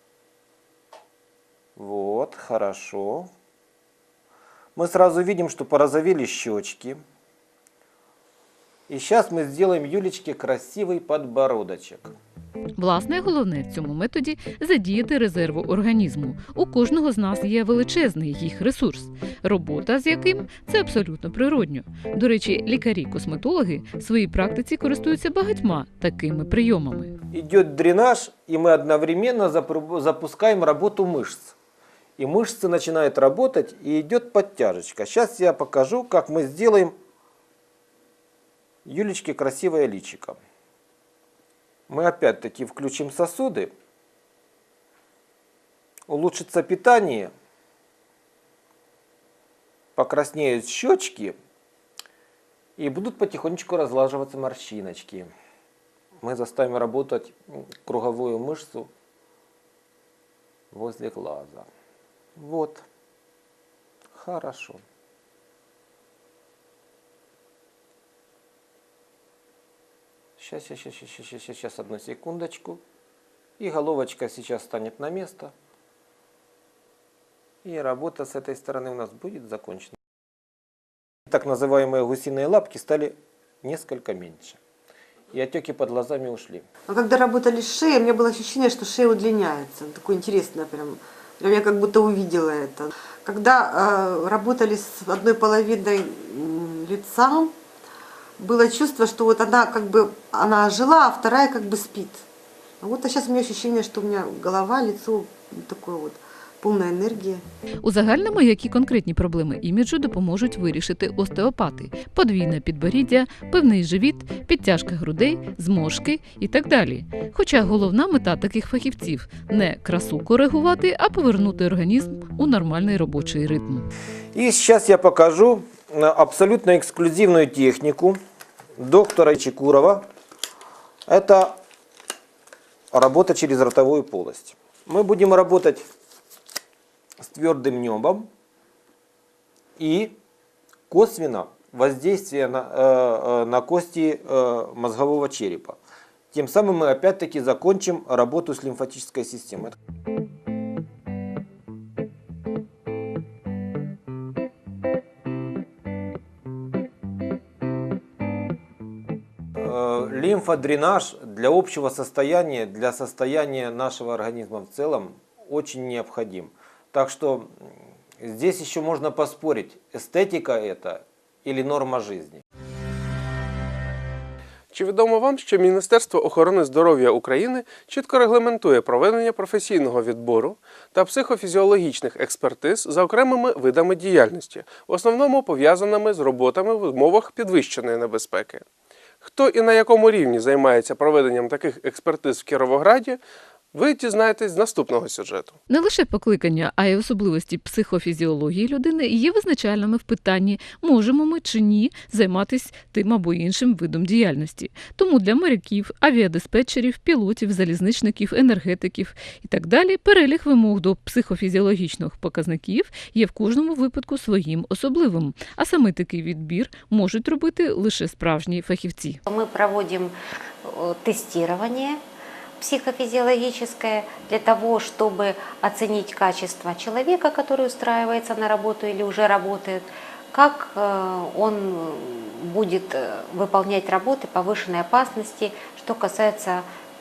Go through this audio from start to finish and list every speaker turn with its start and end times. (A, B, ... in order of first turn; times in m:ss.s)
0:01.8-0:03.3 A
0:04.8-0:07.0 A
0:08.9-0:12.1 A
0:12.8-0:27.1 B
0:27.3-0:31.6 A
0:32.2-0:36.9 A
0:38.8-0:40.4 A
0:41.9-0:43.7 A
0:46.1-0:47.3 A
0:50.0-0:51.4 A
0:52.8-0:55.3 A
0:56.2-0:58.9 A
1:00.7-1:01.7 A
1:02.4-1:02.8 A
1:04.1-1:04.8 A
1:10.4-1:12.8 A
1:13.6-1:15.5 A
1:17.6-1:20.0 A
1:21.3-1:24.6 A
1:25.3-1:26.6 A
1:26.9-1:37.5 C
1:38.4-1:42.2 C
1:42.8-1:47.4 C
1:47.8-2:03.9 B
2:04.3-2:08.2 A
2:08.8-2:10.0 A
2:11.1-2:11.6 A
2:12.9-2:15.8 A
2:17.2-2:18.3 A
2:19.8-2:20.1 A
2:20.9-2:25.8 A
2:26.3-2:29.8 A
2:39.6-2:52.4 A
2:54.7-3:08.6 D
3:09.2-3:13.2 D
3:13.7-3:15.5 D
3:15.7-3:39.2 B
3:39.3-3:42.0 E
3:42.6-3:56.7 E